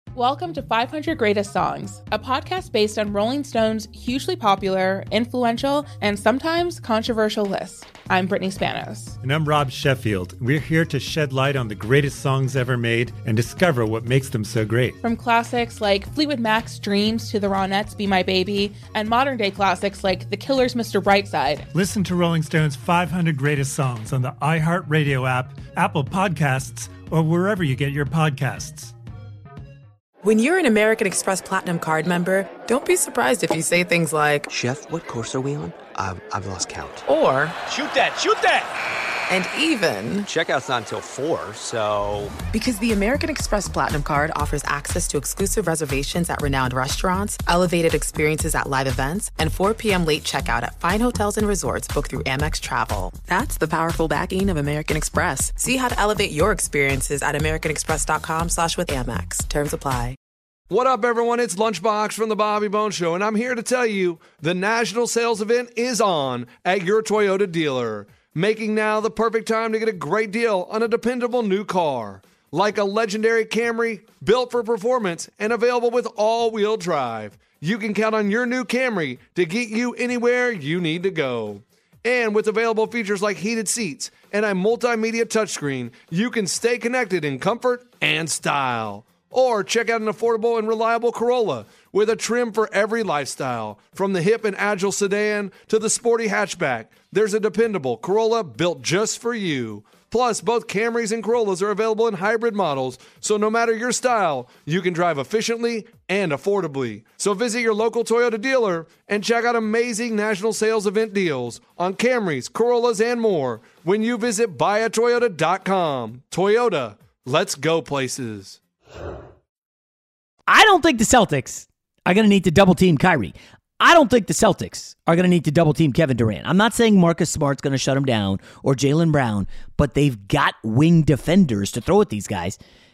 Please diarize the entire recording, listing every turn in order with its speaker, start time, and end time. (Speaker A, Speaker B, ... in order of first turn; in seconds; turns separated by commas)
Speaker A: 0.1-9.2, Speaker B: 9.2-15.0, Speaker A: 15.0-21.7, Speaker B: 21.7-28.9, Speaker C: 30.2-34.5, Speaker D: 34.5-37.0, Speaker C: 37.1-37.5, Speaker D: 37.7-38.6, Speaker C: 39.3-40.3, Speaker D: 40.3-42.4, Speaker C: 42.5-60.2, Speaker E: 60.7-118.6, Speaker F: 120.5-132.6